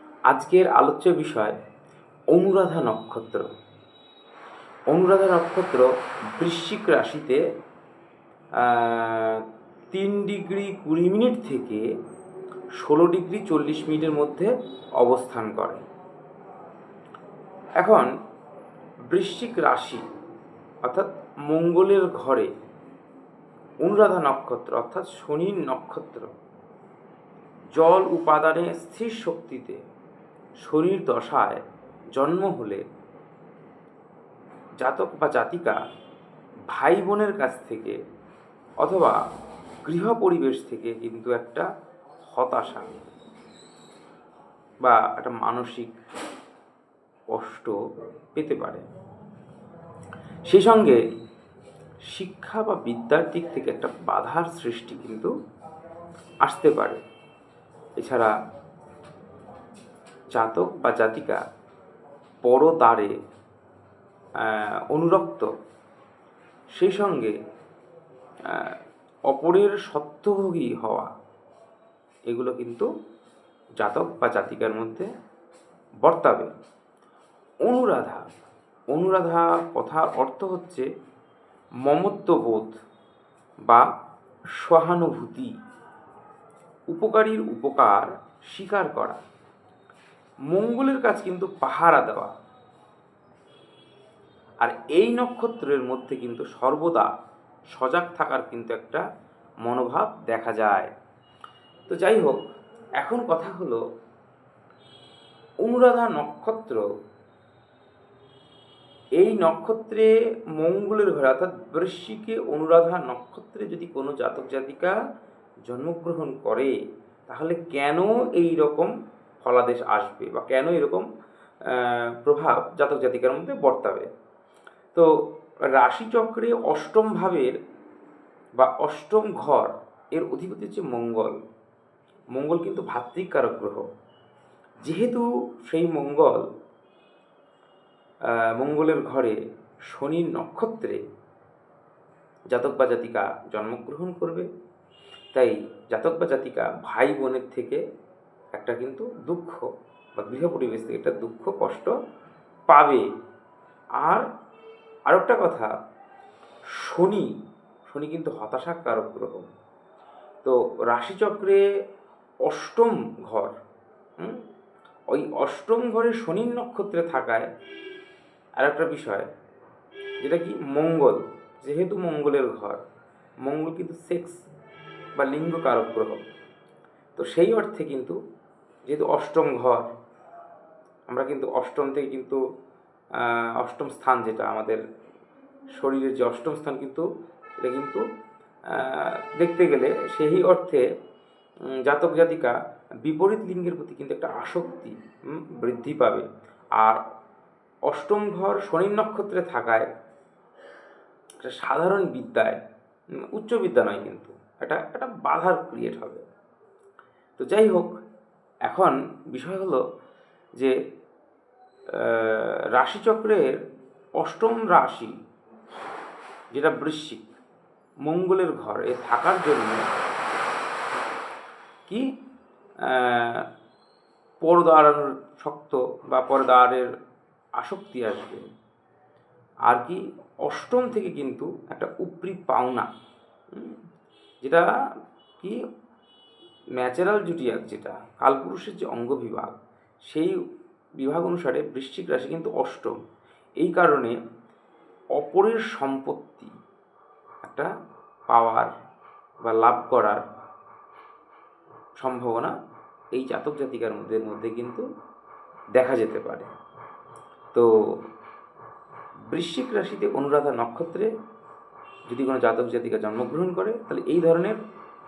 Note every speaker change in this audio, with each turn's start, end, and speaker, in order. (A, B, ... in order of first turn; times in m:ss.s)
0:00.3-0:01.5 A
0:02.3-0:03.5 A
0:04.9-0:07.4 A
0:08.6-0:11.8 A
0:12.8-0:15.8 A
0:17.8-0:18.1 A
0:19.1-0:20.0 A
0:20.8-0:22.5 A
0:23.8-0:26.3 A
0:27.7-0:29.8 A
0:30.6-0:31.6 A
0:32.1-0:32.8 A
0:34.8-0:35.8 A
0:36.7-0:38.0 A
0:38.8-0:39.2 A
0:39.8-0:41.7 A
0:42.3-0:43.0 A
0:44.8-0:45.9 A
0:47.3-0:47.8 A
0:48.3-0:48.8 A
0:50.5-0:51.0 A
0:52.1-0:55.3 A
0:56.4-0:57.0 A
0:58.0-0:58.3 A
1:00.3-1:01.4 A
1:02.4-1:03.1 A
1:04.4-1:05.5 A
1:06.8-1:07.3 A
1:08.5-1:08.8 A
1:09.3-1:11.1 A
1:12.3-1:12.8 A
1:13.8-1:15.1 A
1:16.0-1:16.5 A
1:17.6-1:18.2 A
1:18.9-1:20.9 A
1:21.8-1:22.7 A
1:24.6-1:25.5 A
1:26.9-1:29.2 A
1:30.5-1:32.3 A
1:34.6-1:37.1 A
1:37.7-1:39.0 A
1:39.6-1:40.9 A
1:41.9-1:42.4 A
1:43.0-1:43.8 A
1:45.6-1:46.8 A
1:49.2-1:54.9 A
1:55.6-1:56.7 A
1:57.3-1:58.9 A
1:59.4-2:01.0 A
2:01.6-2:04.1 A
2:05.7-2:07.5 A
2:08.6-2:11.4 A
2:12.3-2:13.8 A
2:14.8-2:16.4 A
2:18.6-2:19.4 A
2:19.9-2:21.0 A
2:22.5-2:24.5 A
2:25.3-2:27.8 A
2:28.5-2:29.6 A
2:30.2-2:31.9 A
2:32.7-2:33.0 A
2:35.1-2:35.7 A
2:36.8-2:37.3 A
2:37.9-2:39.4 A
2:40.4-2:41.6 A
2:42.4-2:43.5 A
2:45.1-2:47.5 A
2:48.6-2:49.3 A
2:50.2-2:52.8 A
2:53.4-2:54.4 A
2:55.2-2:56.2 A
2:57.2-2:58.2 A
2:58.9-2:59.9 A
3:01.1-3:02.4 A
3:03.1-3:04.8 A
3:05.8-3:07.0 A
3:07.6-3:08.0 A
3:08.7-3:10.8 A
3:11.7-3:16.2 A
3:17.9-3:19.9 A
3:21.4-3:22.6 A
3:23.3-3:26.2 A
3:27.4-3:28.0 A
3:28.6-3:29.8 A
3:31.9-3:33.5 A
3:34.2-3:35.1 A
3:36.5-3:37.3 A
3:38.0-3:39.8 A
3:42.9-3:43.4 A
3:44.4-3:46.9 A
3:47.6-3:48.4 A
3:49.7-3:52.9 A
3:53.5-3:53.8 A
3:56.8-3:59.5 A
4:01.0-4:02.9 A
4:03.6-4:04.1 A
4:05.2-4:06.5 A
4:07.4-4:07.7 A
4:08.3-4:08.7 A
4:09.4-4:10.2 A
4:12.0-4:12.5 A
4:13.1-4:14.8 A
4:15.7-4:16.5 A
4:17.5-4:18.0 A
4:19.3-4:21.1 A
4:22.1-4:24.6 A